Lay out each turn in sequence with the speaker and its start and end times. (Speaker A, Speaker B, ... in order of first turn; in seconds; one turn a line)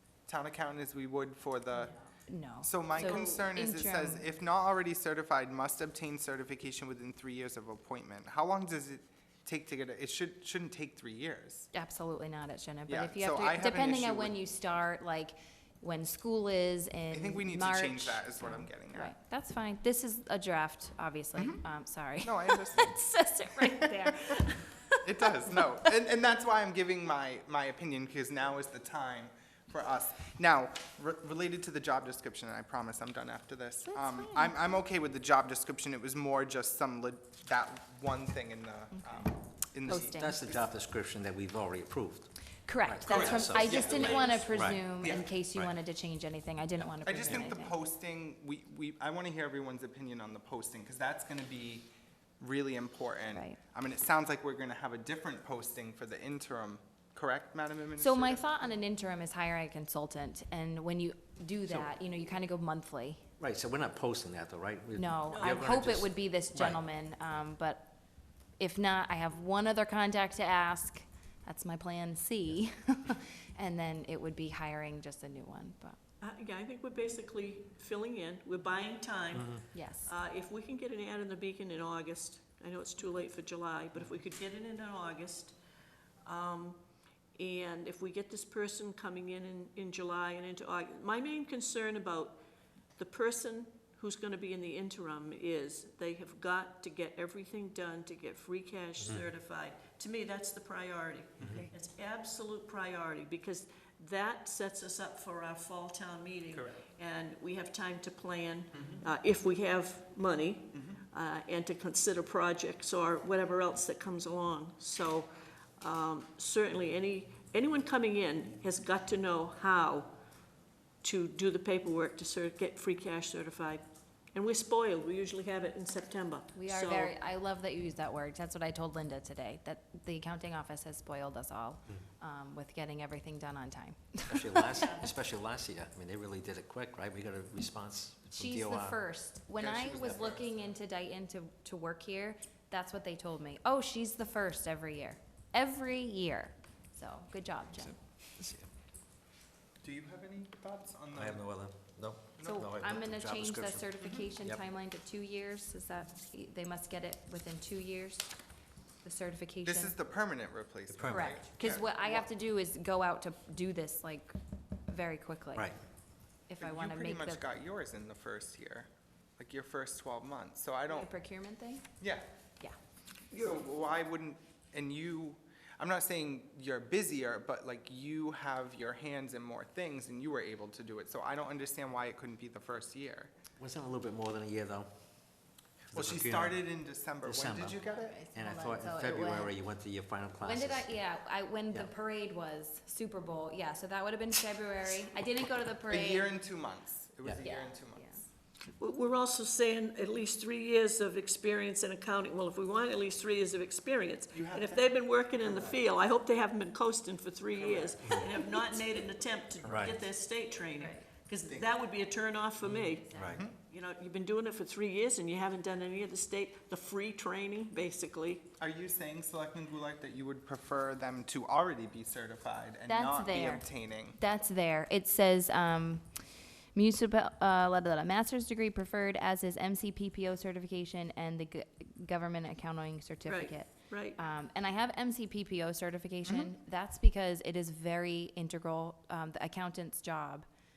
Speaker A: 0.3-1.9
Speaker B: 1.7-4.3
Speaker A: 2.6-11.7
Speaker C: 2.9-3.5
Speaker B: 11.7-25.6
Speaker A: 12.9-14.4
Speaker A: 17.1-19.1
Speaker A: 22.2-22.9
Speaker A: 23.6-24.3
Speaker A: 25.0-40.7
Speaker B: 33.9-34.5
Speaker B: 38.9-39.3
Speaker B: 39.8-40.4
Speaker D: 39.9-44.8
Speaker B: 42.6-47.8
Speaker A: 43.0-45.3
Speaker C: 43.2-44.5
Speaker A: 47.0-51.9
Speaker A: 52.4-58.5
Speaker B: 58.0-63.2
Speaker D: 63.4-66.8
Speaker B: 65.0-67.9
Speaker C: 65.3-65.7
Speaker B: 68.6-76.0
Speaker C: 76.2-85.5
Speaker D: 79.3-79.6
Speaker B: 79.7-80.1
Speaker C: 86.2-86.8
Speaker C: 87.3-92.4
Speaker C: 93.0-115.3
Speaker D: 99.0-99.2
Speaker A: 106.5-106.8
Speaker A: 108.8-109.0
Speaker A: 110.7-111.0
Speaker C: 115.8-120.1
Speaker C: 121.0-127.1
Speaker B: 126.5-134.8
Speaker D: 134.3-139.0
Speaker C: 134.7-135.1
Speaker B: 138.3-148.0
Speaker A: 139.6-140.6
Speaker D: 148.4-148.7
Speaker A: 149.8-151.4
Speaker D: 151.1-153.9
Speaker A: 152.4-152.7
Speaker B: 152.4-158.3
Speaker A: 154.0-154.3
Speaker B: 159.0-159.9
Speaker A: 159.6-162.3
Speaker D: 160.9-161.4
Speaker B: 161.1-164.3
Speaker B: 164.9-165.7
Speaker B: 166.5-167.4
Speaker A: 166.6-171.1
Speaker B: 170.9-171.8
Speaker A: 172.0-172.2
Speaker A: 173.3-183.3
Speaker D: 183.6-184.9
Speaker D: 185.9-186.6
Speaker A: 185.9-188.2
Speaker D: 187.2-190.9
Speaker B: 187.9-189.5
Speaker B: 190.4-196.3
Speaker A: 195.9-198.2
Speaker B: 197.4-198.2
Speaker C: 198.8-218.5
Speaker A: 204.3-205.8
Speaker B: 207.8-208.8
Speaker D: 209.6-209.9
Speaker B: 210.8-211.0
Speaker D: 212.6-213.4
Speaker B: 213.0-213.4
Speaker A: 218.6-224.2
Speaker B: 222.9-226.1
Speaker B: 226.7-240.4
Speaker C: 233.3-234.2
Speaker A: 236.2-236.5